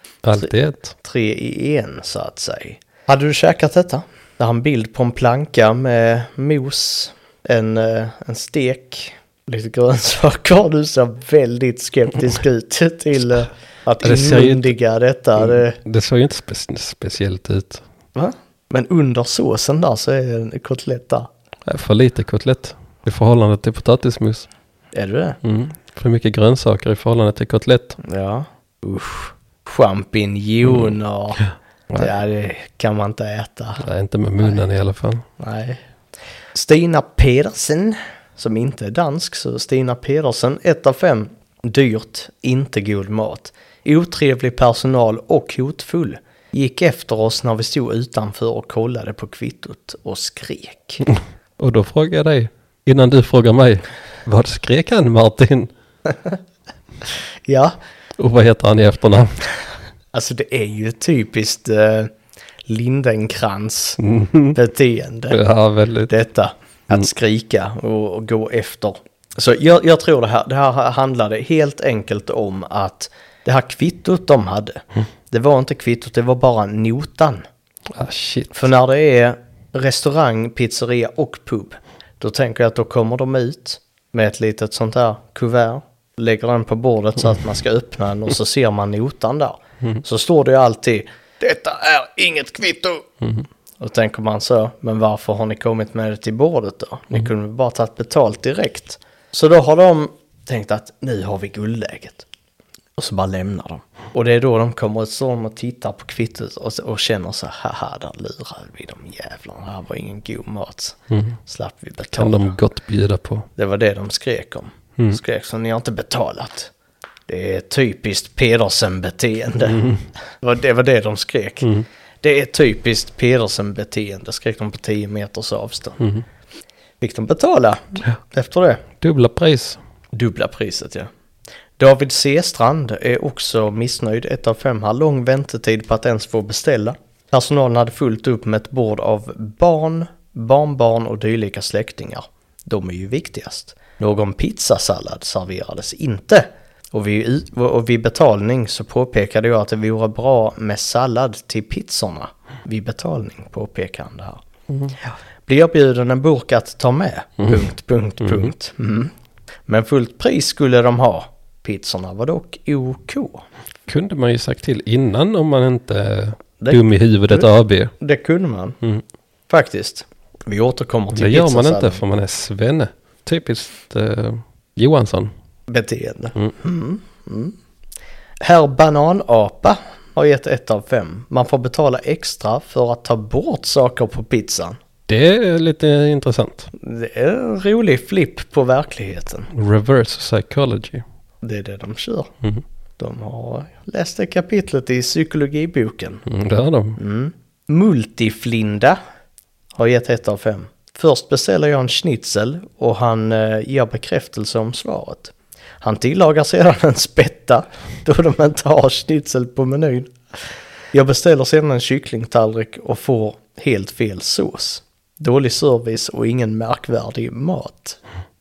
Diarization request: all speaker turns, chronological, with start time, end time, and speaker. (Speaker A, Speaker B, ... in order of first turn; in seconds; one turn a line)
Speaker A: 0.2-0.9
Speaker B: 0.4-15.8
Speaker A: 14.0-14.7
Speaker A: 15.4-17.8
Speaker B: 18.1-21.3
Speaker A: 21.6-24.5
Speaker B: 24.9-25.4
Speaker A: 25.4-28.0
Speaker B: 28.0-33.8
Speaker A: 33.8-35.2
Speaker B: 35.4-35.8
Speaker B: 36.5-51.0
Speaker A: 51.0-55.7
Speaker B: 56.1-56.4
Speaker B: 57.5-57.8
Speaker A: 58.2-59.4
Speaker B: 60.1-62.1
Speaker B: 62.7-64.0
Speaker A: 64.0-64.6
Speaker B: 64.5-65.4
Speaker A: 65.3-66.1
Speaker B: 66.1-77.4
Speaker A: 77.9-78.5
Speaker B: 78.5-93.1
Speaker B: 93.8-102.2
Speaker B: 103.0-112.5
Speaker A: 111.1-111.4
Speaker A: 112.1-113.5
Speaker B: 113.5-116.7
Speaker B: 117.3-126.1
Speaker A: 119.7-120.0
Speaker B: 127.0-128.8
Speaker A: 129.0-129.8
Speaker B: 130.1-131.1
Speaker B: 131.8-154.4
Speaker B: 155.4-159.1
Speaker B: 159.7-163.4
Speaker A: 163.9-167.9
Speaker B: 166.6-167.5
Speaker B: 168.0-168.8
Speaker B: 169.5-172.0
Speaker A: 171.1-175.3
Speaker B: 175.7-177.5
Speaker B: 178.4-184.8
Speaker A: 185.1-186.7
Speaker B: 186.7-189.5
Speaker A: 189.5-191.0
Speaker B: 191.4-192.3
Speaker B: 193.0-196.2
Speaker A: 196.2-197.0
Speaker B: 197.0-199.0
Speaker B: 199.7-210.1
Speaker B: 210.9-218.0